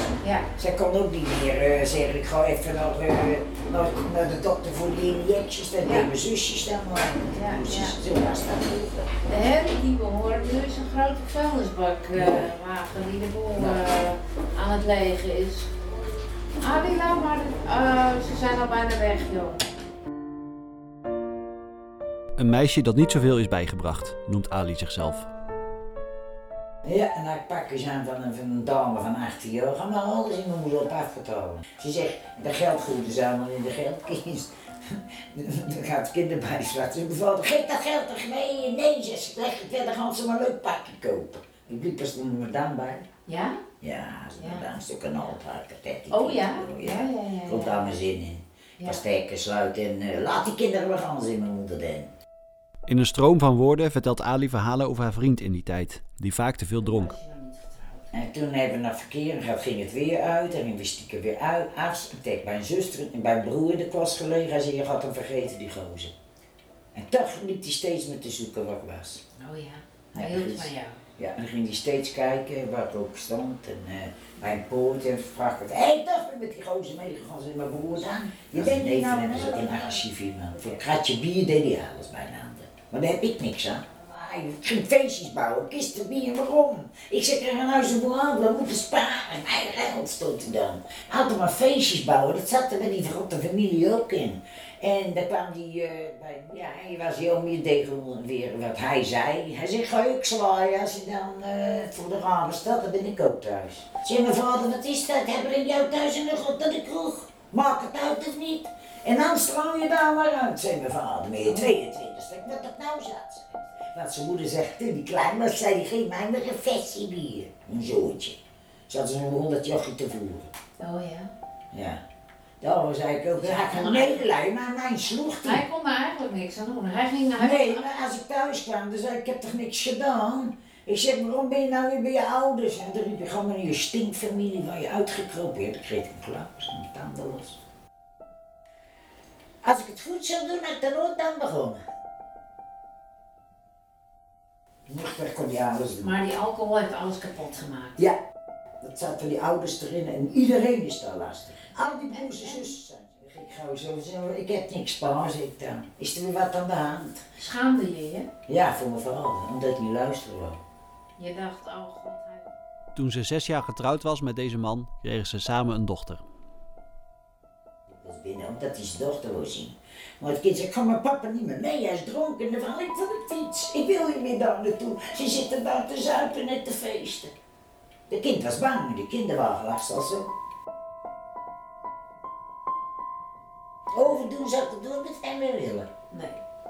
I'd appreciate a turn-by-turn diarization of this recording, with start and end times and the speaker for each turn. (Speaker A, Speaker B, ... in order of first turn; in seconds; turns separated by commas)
Speaker A: 0.2-0.5, Speaker B: 0.6-9.0, Speaker A: 5.8-6.1, Speaker A: 7.3-8.0, Speaker A: 9.3-15.7, Speaker B: 12.1-12.5, Speaker B: 13.6-13.8, Speaker A: 16.6-19.6, Speaker C: 22.4-25.3, Speaker B: 26.9-43.0, Speaker A: 43.3-43.6, Speaker B: 43.8-52.1, Speaker A: 44.4-44.6, Speaker A: 46.1-47.8, Speaker C: 52.9-57.1, Speaker A: 56.8-58.1, Speaker B: 58.1-66.1, Speaker B: 67.0-69.2, Speaker A: 69.4-71.0, Speaker B: 70.1-118.4, Speaker A: 78.9-80.0, Speaker B: 118.9-120.5, Speaker A: 120.8-121.3, Speaker B: 121.7-122.0, Speaker B: 122.6-125.7, Speaker A: 123.4-124.2, Speaker A: 125.4-127.8, Speaker B: 127.4-137.6, Speaker B: 139.6-141.8, Speaker B: 144.9-146.2, Speaker A: 146.0-148.0, Speaker B: 148.8-157.2, Speaker A: 152.1-152.7, Speaker A: 157.4-158.3, Speaker B: 158.5-160.6, Speaker A: 161.2-162.5, Speaker C: 162.9-166.2, Speaker B: 167.9-177.3, Speaker B: 178.1-180.3, Speaker B: 183.9-185.9, Speaker A: 186.1-186.4